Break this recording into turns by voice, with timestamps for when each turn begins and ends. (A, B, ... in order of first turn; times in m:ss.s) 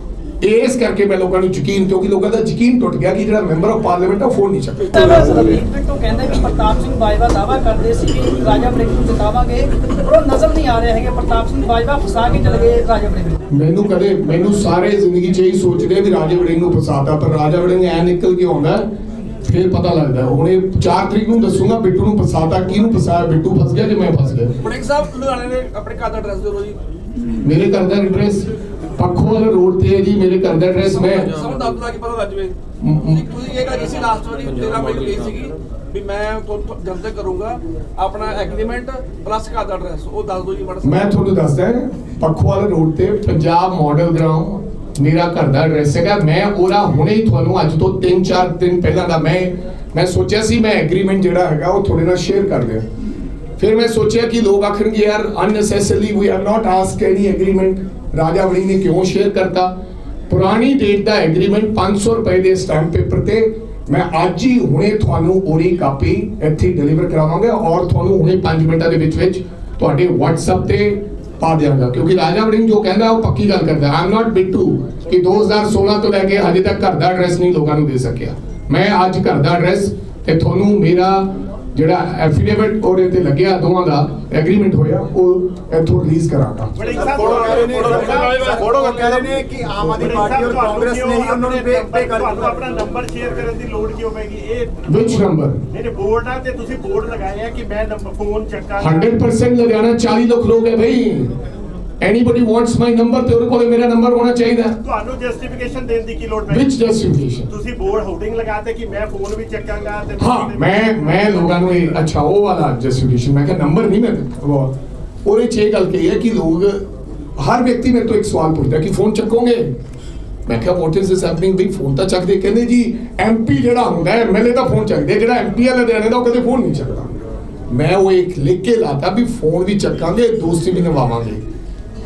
0:00.4-0:05.3 A
0:04.9-0:13.4 B
0:13.5-0:18.8 A
0:19.4-0:24.5 A
0:24.6-0:26.8 C
0:27.4-0:31.3 A
0:30.9-0:32.5 C
0:32.8-0:33.2 A
0:33.0-0:41.1 C
0:40.8-0:52.8 A
0:53.6-0:59.7 A
1:00.3-1:26.8 A
1:26.8-1:28.5 D
1:26.9-1:32.5 E
1:27.2-1:28.6 C
1:30.0-1:39.1 D
1:34.9-1:35.6 A
1:38.8-1:41.4 A
1:42.0-1:44.8 A
1:44.8-1:46.7 D
1:46.5-1:47.5 A
1:47.5-1:52.0 D
1:50.2-1:54.7 A
1:55.2-1:56.8 A
1:57.4-1:59.7 A
2:00.4-2:07.2 A
2:07.7-2:11.4 A